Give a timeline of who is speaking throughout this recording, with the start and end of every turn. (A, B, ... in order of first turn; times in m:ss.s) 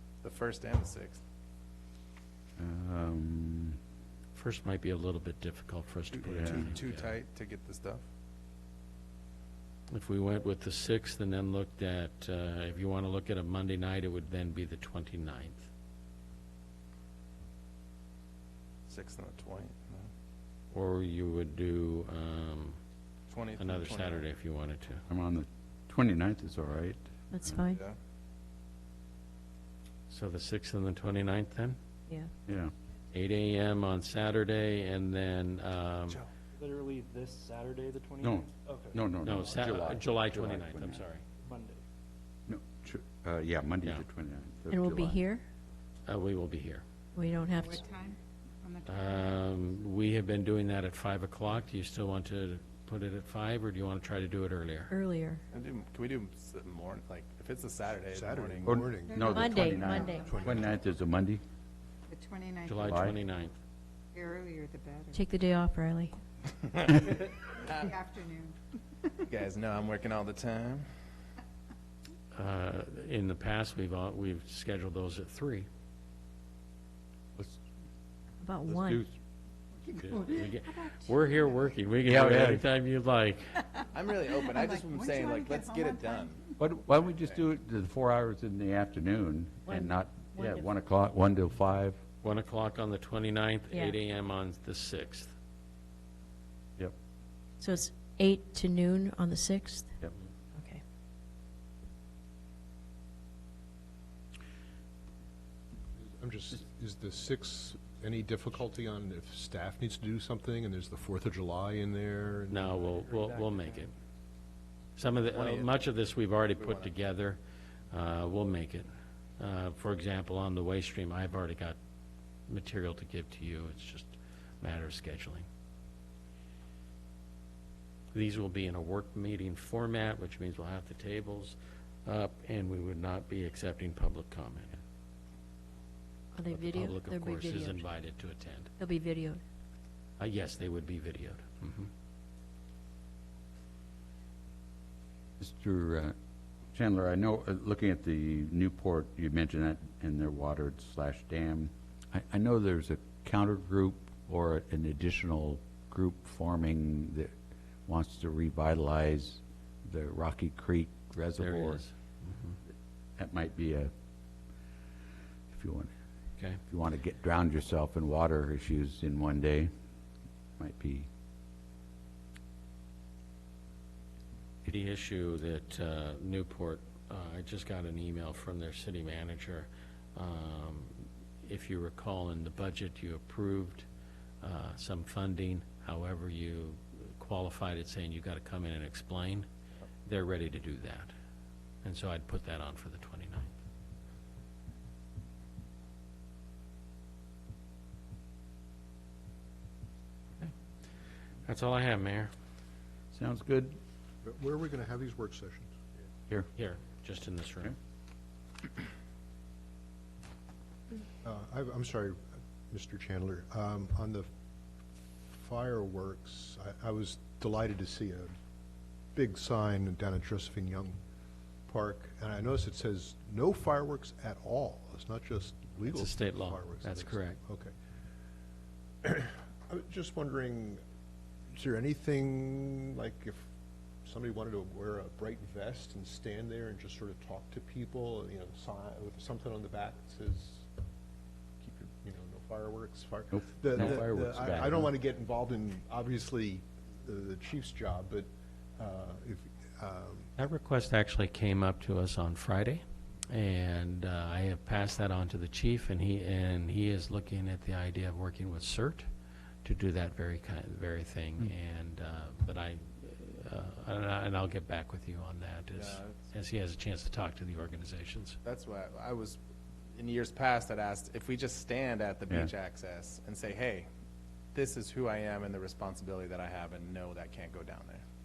0:00.2-0:01.2 A
0:02.6-0:03.8 B
0:04.3-0:07.1 C
0:06.1-0:08.0 A
0:06.3-0:06.7 B
0:09.9-0:15.7 C
0:18.9-0:20.1 A
0:20.7-0:22.8 C
0:23.3-0:24.3 A
0:23.6-0:25.0 C
0:25.1-0:27.6 B
0:27.3-0:27.8 D
0:27.5-0:28.0 A
0:30.1-0:31.8 C
0:32.5-0:32.7 B
0:33.1-0:36.2 C
0:36.6-0:39.0 E
0:38.2-0:41.0 B
0:39.2-0:41.2 C
0:41.4-0:41.8 E
0:42.5-0:45.2 B
0:44.7-0:45.4 D
0:46.0-0:46.8 C
0:47.1-0:47.8 D
0:47.4-0:49.8 F
0:48.8-0:54.9 C
0:54.9-0:55.4 D
0:55.5-0:58.8 A
0:58.1-1:00.6 G
0:58.6-1:01.4 B
0:58.9-1:00.8 F
0:59.3-1:00.4 D
1:02.1-1:03.1 F
1:02.6-1:03.5 C
1:02.8-1:03.2 B
1:04.1-1:05.2 F
1:05.1-1:06.2 D
1:06.7-1:07.1 A
1:06.9-1:08.6 F
1:09.3-1:10.9 A
1:12.3-1:15.7 C
1:18.4-1:19.0 D
1:18.6-1:19.1 B
1:19.8-1:21.5 F
1:20.0-1:23.7 C
1:22.0-1:22.7 B
1:23.9-1:26.4 A
1:24.5-1:26.5 F
1:26.6-1:32.0 B
1:29.6-1:30.7 D
1:32.2-1:35.3 C
1:33.7-1:34.0 D
1:37.6-1:40.0 D
1:40.6-1:40.8 D
1:46.0-1:52.7 G
1:52.5-1:53.9 C
1:53.1-1:53.4 E
1:55.0-1:57.4 C
1:55.2-1:55.7 A
1:56.6-1:56.9 A
1:57.9-2:01.8 C
2:02.5-2:05.4 C
2:08.1-2:14.7 C
2:16.3-2:17.9 D
2:16.5-2:18.7 C
2:18.8-2:19.4 D
2:20.2-2:21.9 C
2:25.4-2:26.1 B
2:26.7-2:37.3 B
2:37.8-2:41.8 B
2:41.4-2:42.6 C
2:43.2-2:43.9 B
2:45.5-2:45.9 B
2:46.6-2:49.7 B
2:50.6-2:51.1 B
2:54.6-3:03.9 C
3:04.4-3:09.5 C
3:10.0-3:11.1 C
3:11.8-3:13.5 C
3:21.4-3:22.3 C
3:23.1-3:23.8 B
3:24.2-3:25.8 G
3:26.5-3:27.7 C
3:31.2-3:34.3 G
3:35.3-3:38.3 G
3:39.1-3:41.0 G
3:41.7-3:47.7 G
3:45.8-3:47.4 C
3:49.0-3:50.8 G
3:51.5-3:53.5 G
3:54.0-4:00.7 G
4:01.6-4:10.3 G
4:03.3-4:04.9 B
4:10.4-4:19.1 C
4:19.6-4:28.4 C
4:25.8-4:26.2 A
4:28.4-4:29.4 A
4:29.9-4:33.9 A
4:34.5-4:38.0 A